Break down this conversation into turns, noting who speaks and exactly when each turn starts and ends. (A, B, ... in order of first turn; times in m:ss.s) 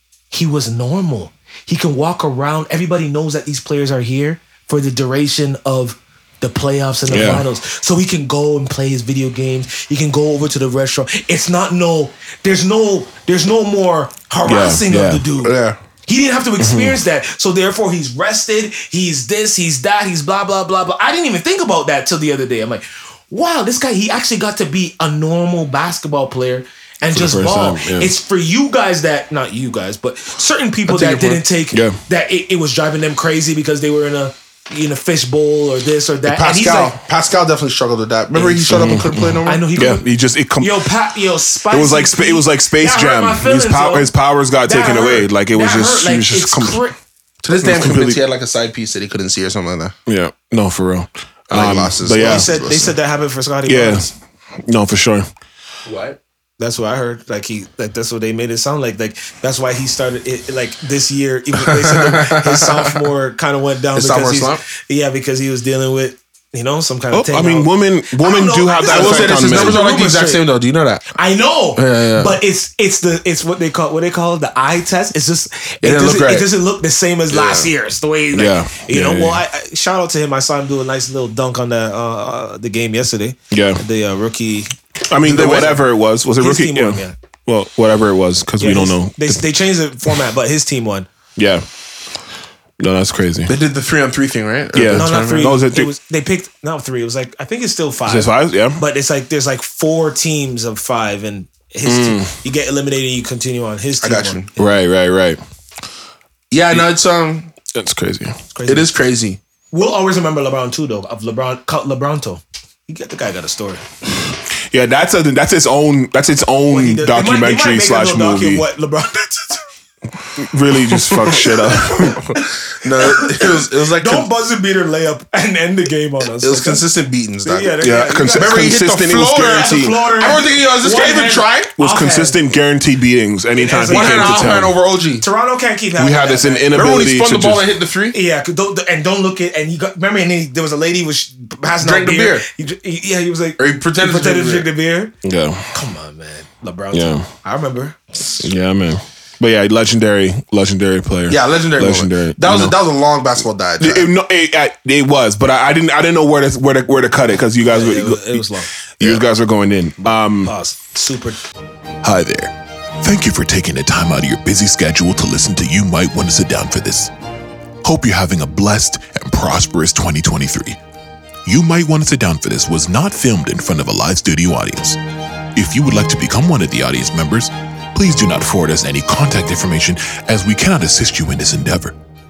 0:00.3-0:15.6 A
0:07.1-0:07.4 B
0:14.4-0:15.3 B
0:15.4-0:15.8 C
0:16.1-0:37.0 A
0:16.6-0:17.0 B
0:27.1-0:28.1 B
0:30.9-0:31.4 C
0:31.7-0:32.0 B
0:36.3-0:39.6 C
0:38.3-0:38.9 A
0:38.7-0:40.9 B
0:39.4-0:44.1 A
0:41.7-0:46.8 B
0:44.6-0:47.0 A
0:47.4-0:50.0 C
0:47.6-0:48.2 B
0:50.1-0:52.5 B
0:51.5-0:52.9 C
0:52.2-0:54.1 A
0:53.7-0:54.1 B
0:54.6-0:55.3 B
0:55.9-0:56.2 C
0:56.6-1:10.4 A
1:01.6-1:03.0 C
1:04.0-1:04.6 C
1:07.1-1:09.8 B
1:08.9-1:11.2 C
1:11.1-1:24.8 A
1:11.8-1:12.4 C
1:15.8-1:16.5 C
1:17.3-1:17.7 C
1:18.3-1:19.4 B
1:23.5-1:23.8 B
1:25.1-1:29.4 B
1:25.2-1:25.8 C
1:26.4-1:27.2 A
1:28.6-1:31.1 A
1:31.4-1:31.6 B
1:32.8-1:33.5 B
1:33.5-1:35.5 C
1:34.7-1:35.9 B
1:34.9-1:44.5 A
1:38.1-1:38.8 B
1:41.8-1:42.3 B
1:44.0-1:44.5 C
1:44.6-1:45.4 B
1:46.5-1:47.5 C
1:47.7-1:48.4 B
1:48.5-1:48.9 A
1:48.7-1:49.4 C
1:49.7-1:53.8 A
1:54.7-1:58.6 B
1:56.7-1:59.6 A
2:00.4-2:02.2 B
2:01.2-2:01.6 C
2:01.4-2:06.8 A
2:02.7-2:04.3 C
2:06.4-2:11.7 C
2:07.4-2:08.7 A
2:07.8-2:10.0 B
2:09.3-2:12.4 A
2:11.8-2:14.8 B
2:13.6-2:14.6 A
2:13.9-2:15.3 C
2:15.2-2:17.0 A
2:16.0-2:17.7 B
2:16.7-2:18.2 C
2:18.1-2:25.2 A
2:21.8-2:22.4 C
2:23.6-2:24.7 C
2:25.2-2:25.7 B
2:25.7-2:28.5 A
2:26.9-2:27.3 B
2:28.4-2:32.8 B
2:31.3-2:34.1 C
2:33.8-2:38.5 B
2:37.7-2:38.7 A
2:39.0-2:40.5 B
2:40.4-2:41.4 A
2:42.0-2:47.1 D
2:47.8-2:50.8 D
2:51.5-2:55.0 D
2:55.5-3:02.0 D